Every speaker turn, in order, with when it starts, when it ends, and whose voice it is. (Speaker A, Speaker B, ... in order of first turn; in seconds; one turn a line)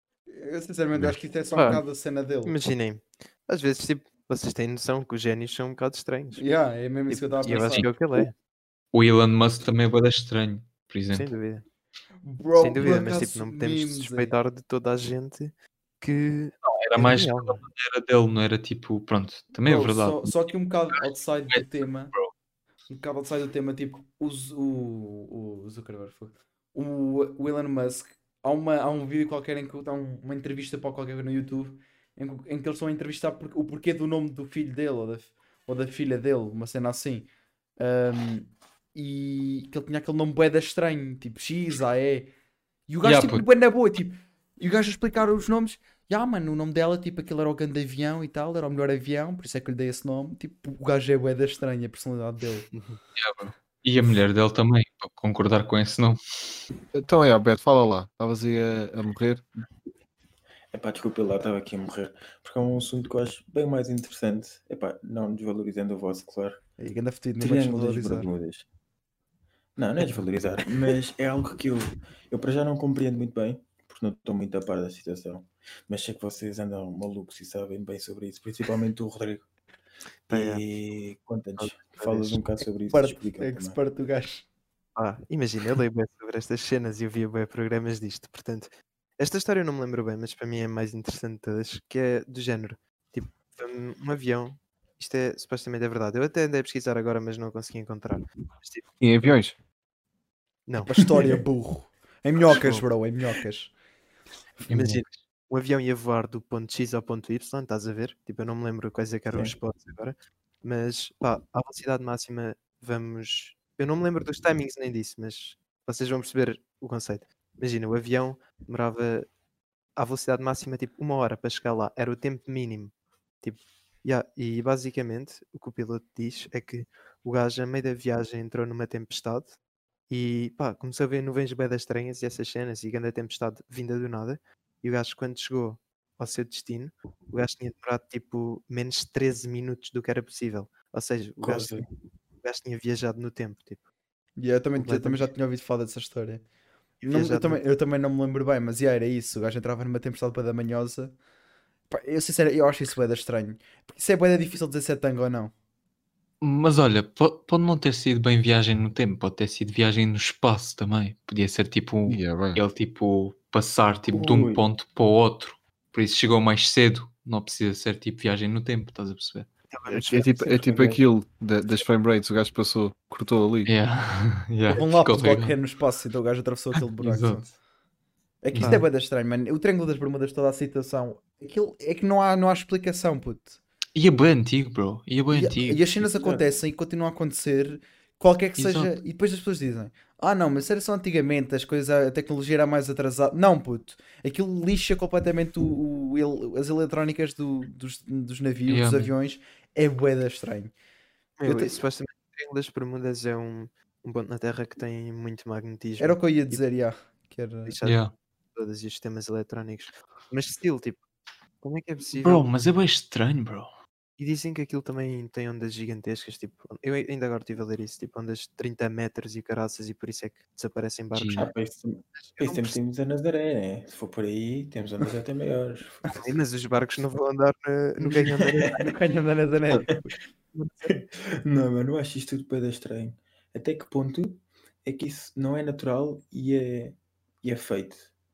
Speaker A: 0.3-2.5
Speaker B: 1.5-1.8
Speaker B: 2.5-6.5
Speaker A: 6.4-7.9
Speaker B: 7.1-8.3
Speaker C: 7.5-7.9
Speaker C: 8.9-11.3
Speaker B: 11.1-11.6
Speaker A: 12.2-14.3
Speaker B: 12.6-17.6
Speaker C: 16.6-20.4
Speaker A: 19.7-22.1
Speaker C: 21.5-22.3
Speaker A: 22.9-42.3
Speaker A: 42.9-52.7
Speaker C: 43.0-43.4
Speaker B: 52.7-53.0
Speaker C: 53.2-56.2
Speaker D: 56.9-59.4
Speaker E: 60.7-66.6
Speaker A: 66.8-68.3
Speaker E: 67.4-68.7
Speaker E: 69.8-79.5
Speaker B: 80.3-80.6
Speaker E: 80.3-83.8
Speaker B: 81.6-82.4
Speaker A: 82.9-84.5
Speaker B: 85.0-99.4
Speaker D: 99.0-99.6
Speaker B: 100.7-100.9
Speaker A: 100.8-103.7
Speaker B: 102.5-102.8
Speaker C: 104.7-105.0
Speaker B: 104.7-119.3
Speaker B: 120.0-129.6
Speaker B: 130.1-141.8
Speaker E: 141.4-141.9
Speaker B: 142.4-143.9
Speaker A: 144.4-146.4
Speaker B: 144.8-145.3
Speaker B: 147.0-147.6
Speaker A: 147.0-151.2
Speaker A: 151.9-155.5
Speaker C: 156.4-169.5
Speaker D: 162.1-162.6
Speaker E: 164.1-164.6
Speaker B: 169.7-171.0
Speaker D: 169.9-173.7
Speaker C: 173.7-175.6
Speaker A: 174.7-177.6
Speaker C: 176.7-177.5
Speaker A: 178.4-183.6
Speaker C: 178.5-178.8
Speaker C: 184.0-186.1
Speaker A: 185.3-200.7
Speaker C: 188.6-189.0
Speaker C: 198.7-199.1
Speaker B: 201.4-206.6
Speaker A: 201.4-201.8
Speaker A: 206.0-207.8
Speaker B: 207.7-211.0
Speaker C: 207.8-208.1
Speaker B: 211.6-212.5
Speaker C: 212.2-213.7
Speaker B: 214.2-221.5
Speaker C: 221.1-221.5
Speaker E: 221.3-226.1
Speaker B: 222.2-222.8
Speaker B: 226.1-228.8
Speaker E: 228.4-228.7
Speaker A: 228.7-230.1
Speaker E: 230.9-238.1